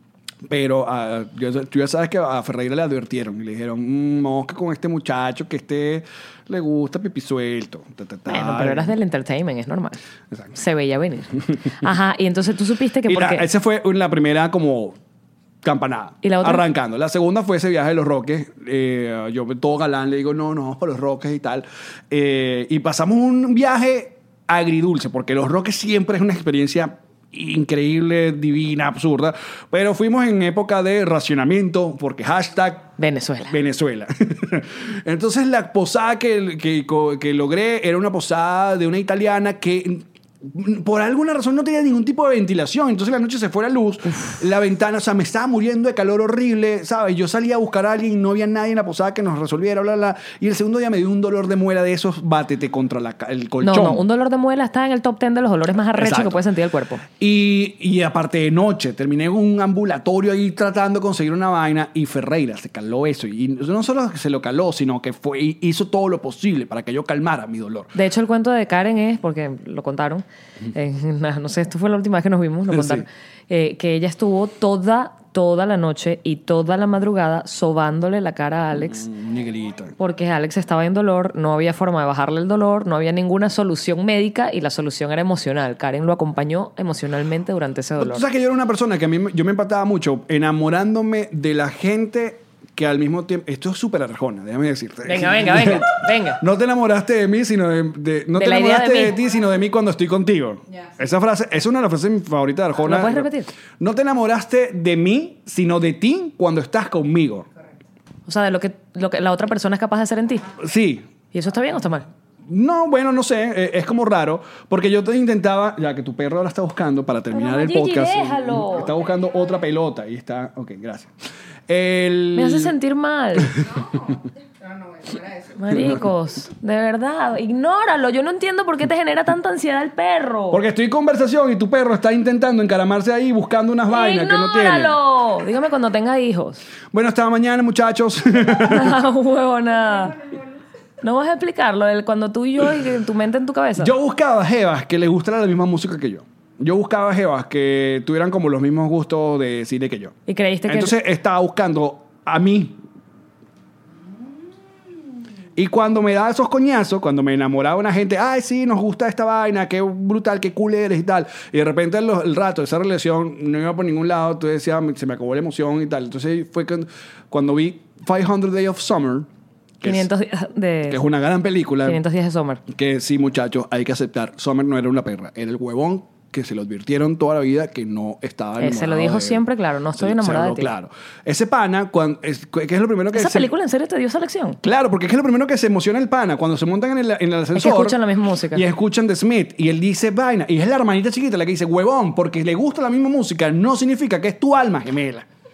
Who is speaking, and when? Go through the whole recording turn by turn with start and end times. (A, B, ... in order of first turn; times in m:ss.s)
0:00.5-0:09.0 A
0:08.3-0:10.0 B
0:10.5-0:13.5 B
0:13.1-0:15.0 A
0:15.6-0:33.0 A
0:16.2-0:16.6 B
0:33.0-0:33.6 B
0:33.5-0:54.0 A
0:53.6-0:57.0 B
0:56.0-0:56.4 A
0:57.2-1:07.9 A
1:08.0-1:19.1 B
1:12.7-1:13.0 A
1:18.7-1:19.9 A
1:20.0-1:28.2 B
1:28.0-1:47.5 A
1:35.0-1:36.4 B
1:38.3-1:39.2 B
1:42.8-1:43.5 B
1:48.3-1:50.5 B
1:50.6-1:51.1 A
1:51.3-1:52.1 B
1:52.5-2:01.1 A
1:57.3-1:59.0 B
2:01.7-2:02.8 A
2:02.3-2:03.5 B
2:03.8-2:05.6 C
2:05.6-2:10.6 B
2:05.7-2:06.1 A
2:10.5-2:15.0 A
2:13.9-2:16.6 B
2:16.9-2:19.0 A
2:18.6-2:20.2 B
2:19.7-2:20.7 C
2:21.0-2:23.9 B
2:23.8-2:30.2 A
2:30.3-2:31.0 B
2:30.7-2:32.8 A
2:35.6-2:49.3 A
2:49.8-2:50.1 A
2:49.8-2:51.0 B
2:50.9-2:52.0 A
2:51.8-2:52.6 B
2:52.7-3:03.5 A
2:58.6-3:00.7 B
3:03.1-3:04.6 B
3:04.6-3:08.0 A
3:07.6-3:08.6 B
3:08.5-3:15.3 A